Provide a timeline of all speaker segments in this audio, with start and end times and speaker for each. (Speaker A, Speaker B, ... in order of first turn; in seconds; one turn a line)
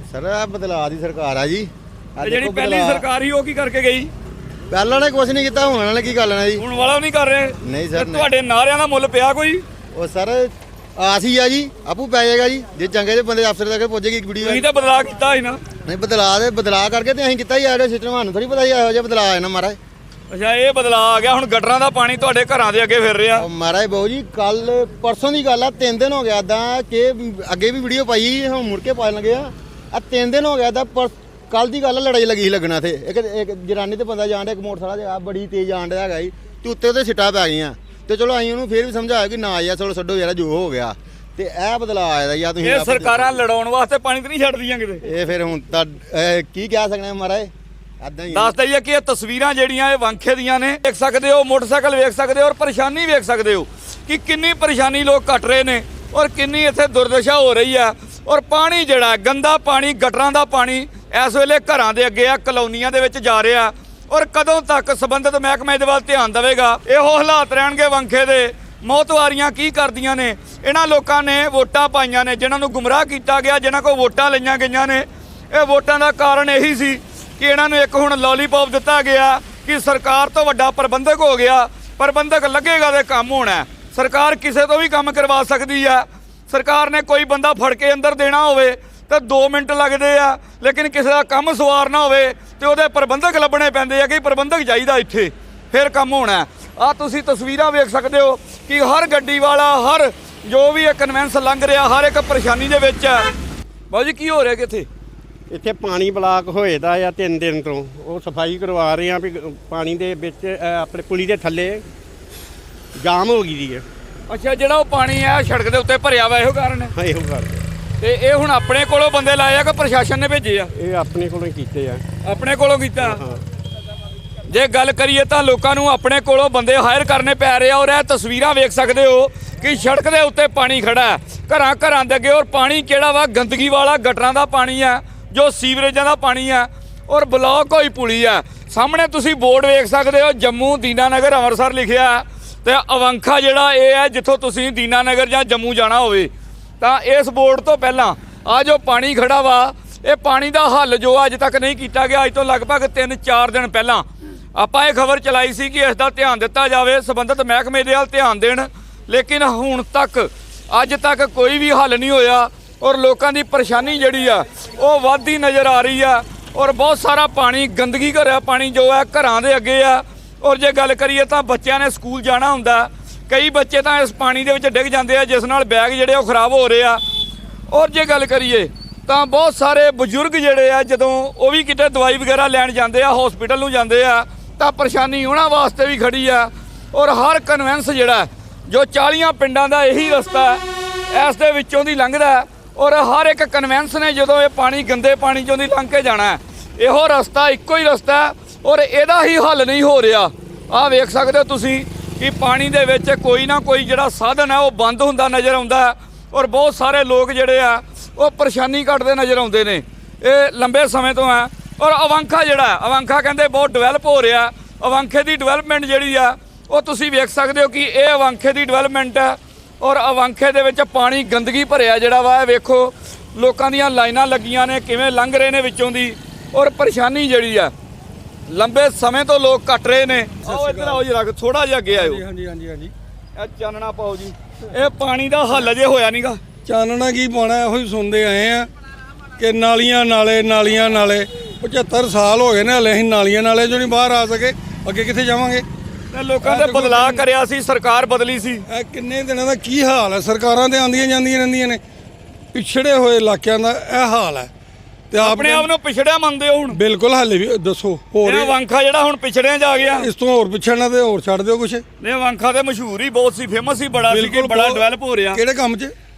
Speaker A: 0.1-3.0
Speaker B: 2.2-4.1
Speaker A: 4.7-6.6
Speaker B: 6.6-9.6
Speaker A: 7.6-8.3
Speaker A: 9.9-14.6
Speaker B: 14.4-15.6
Speaker A: 15.8-19.8
Speaker B: 20.3-23.4
Speaker A: 23.4-43.2
Speaker B: 42.6-45.0
Speaker A: 45.0-48.5
Speaker B: 48.3-103.3
Speaker B: 103.9-104.9
Speaker C: 105.5-111.8
Speaker C: 113.0-113.8
Speaker B: 114.3-116.9
Speaker C: 117.0-117.6
Speaker B: 118.0-120.7
Speaker C: 120.8-122.0
Speaker B: 122.2-123.2
Speaker C: 123.0-123.4
Speaker B: 124.5-177.0
Speaker B: 177.7-227.7
Speaker B: 228.5-232.2
Speaker D: 230.4-231.0
Speaker D: 231.9-232.9
Speaker B: 233.3-236.4
Speaker D: 236.6-238.7
Speaker D: 239.4-245.7
Speaker B: 246.1-248.6
Speaker D: 246.4-247.2
Speaker D: 248.7-251.8
Speaker D: 252.5-254.5
Speaker D: 255.1-255.7
Speaker B: 255.2-256.8
Speaker D: 256.7-258.5
Speaker B: 258.2-260.1
Speaker D: 260.0-261.8
Speaker B: 262.0-265.4
Speaker D: 264.1-265.9